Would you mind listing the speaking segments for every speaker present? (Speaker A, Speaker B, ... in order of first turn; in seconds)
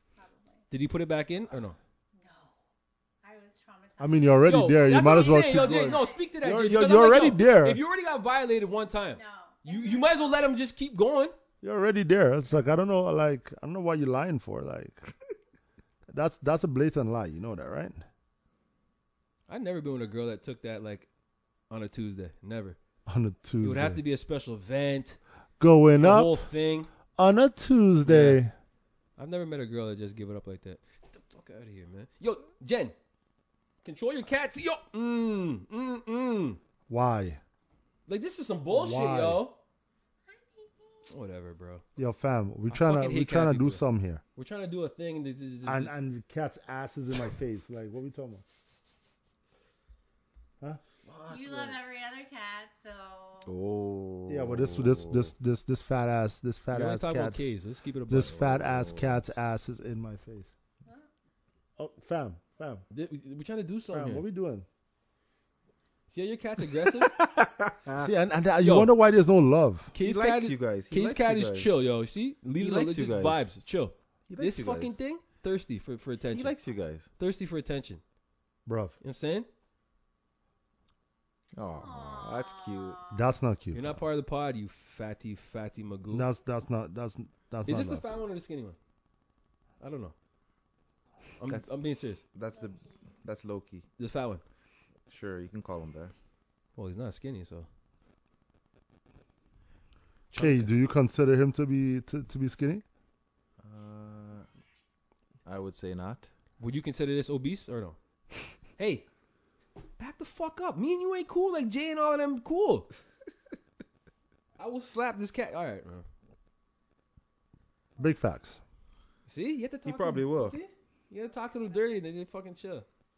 Speaker A: 0.1-0.6, 2.1-2.6, 3.2-6.3, 9.1-10.5, 40.2-41.1, 51.3-53.5, 81.7-83.2, 92.5-93.0, 121.3-121.9
Speaker B: 0.7-1.8, 4.5-11.3, 19.5-21.1, 21.7-22.8, 23.6-25.2, 26.0-26.9, 28.0-28.4, 29.2-32.9, 33.8-36.6, 38.1-39.6, 41.1-41.8, 42.7-43.8, 44.4-45.9, 51.0-51.8, 56.7-58.4, 62.9-64.2, 66.1-67.1, 68.6-68.9, 69.9-76.6, 77.2-78.0, 79.0-79.5, 83.7-86.3, 87.7-88.8, 89.8-90.1, 91.4-92.2, 94.0-94.4, 96.8-97.7, 100.3-100.7, 106.6-108.0, 108.8-109.0, 110.0-112.9, 114.6-116.0, 119.3-122.8
Speaker C: 4.0-7.8, 11.6-15.0, 16.1-18.0, 23.1-24.0, 25.6-26.5, 27.1-28.5, 36.9-37.4, 38.7-39.4, 42.0-44.2, 45.6-49.0, 54.3-57.5, 58.1-60.5, 61.8-62.8, 63.9-64.7, 68.0-69.9, 78.7-79.0, 83.1-84.0, 86.1-88.0, 100.3-102.8, 118.0-118.6
Speaker D: 53.5-55.3, 58.3-59.2, 67.0-68.1, 70.0-71.8, 72.5-73.5, 74.3-74.9, 76.3-77.1, 81.5-83.0, 92.3-93.8, 95.1-96.1, 103.6-104.5, 105.4-106.3, 119.8-120.6